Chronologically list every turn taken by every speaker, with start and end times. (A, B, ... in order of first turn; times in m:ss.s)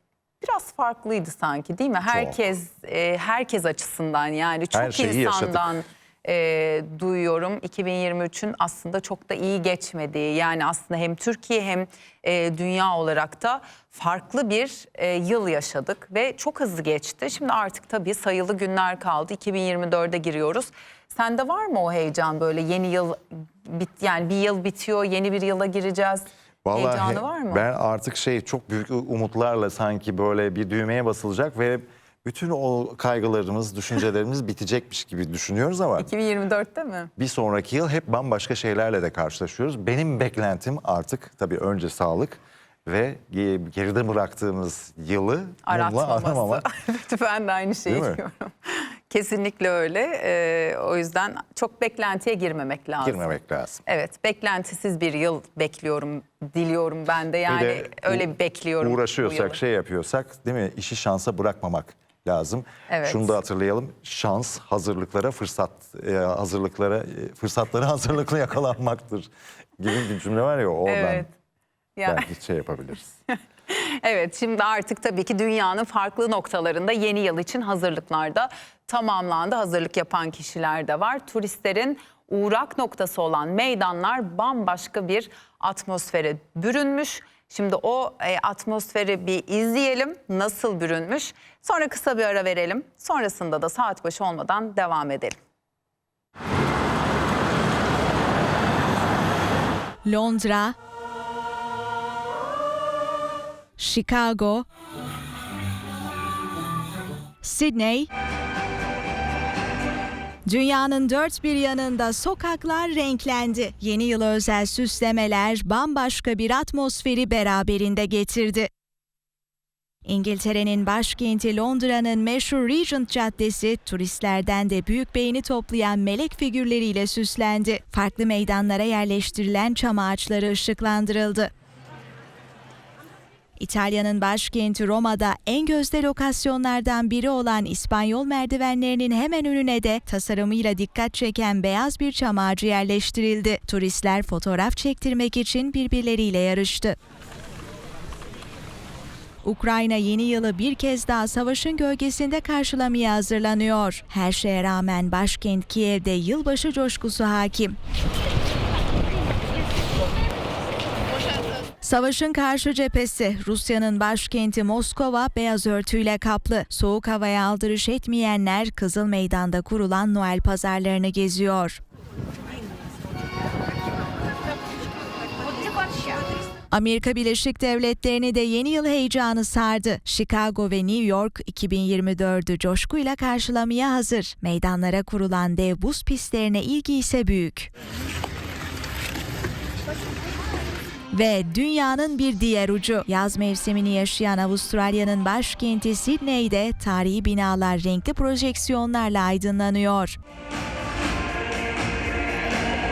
0:00.4-0:27.6 A
0:02.1-0:02.4 B
0:04.7-0:05.7 B
0:26.6-0:36.1 B
0:36.0-0:37.1 A
0:37.2-0:46.7 B
0:45.7-0:53.3 A
0:47.9-0:48.2 B
0:53.0-0:53.8 B
0:53.8-0:59.6 A
0:57.5-1:11.2 B
1:02.9-1:03.4 A
1:10.8-1:11.3 A
1:12.0-1:12.3 A
1:12.0-1:13.1 B
1:13.3-1:35.4 A
1:40.0-1:40.7 C
1:43.8-1:44.6 C
1:47.4-1:48.1 C
1:50.5-1:58.7 C
2:00.0-2:11.5 C
2:13.6-2:26.9 C
2:29.4-2:37.7 C
2:41.8-2:51.8 C
2:56.7-3:07.7 C
3:11.1-3:20.2 C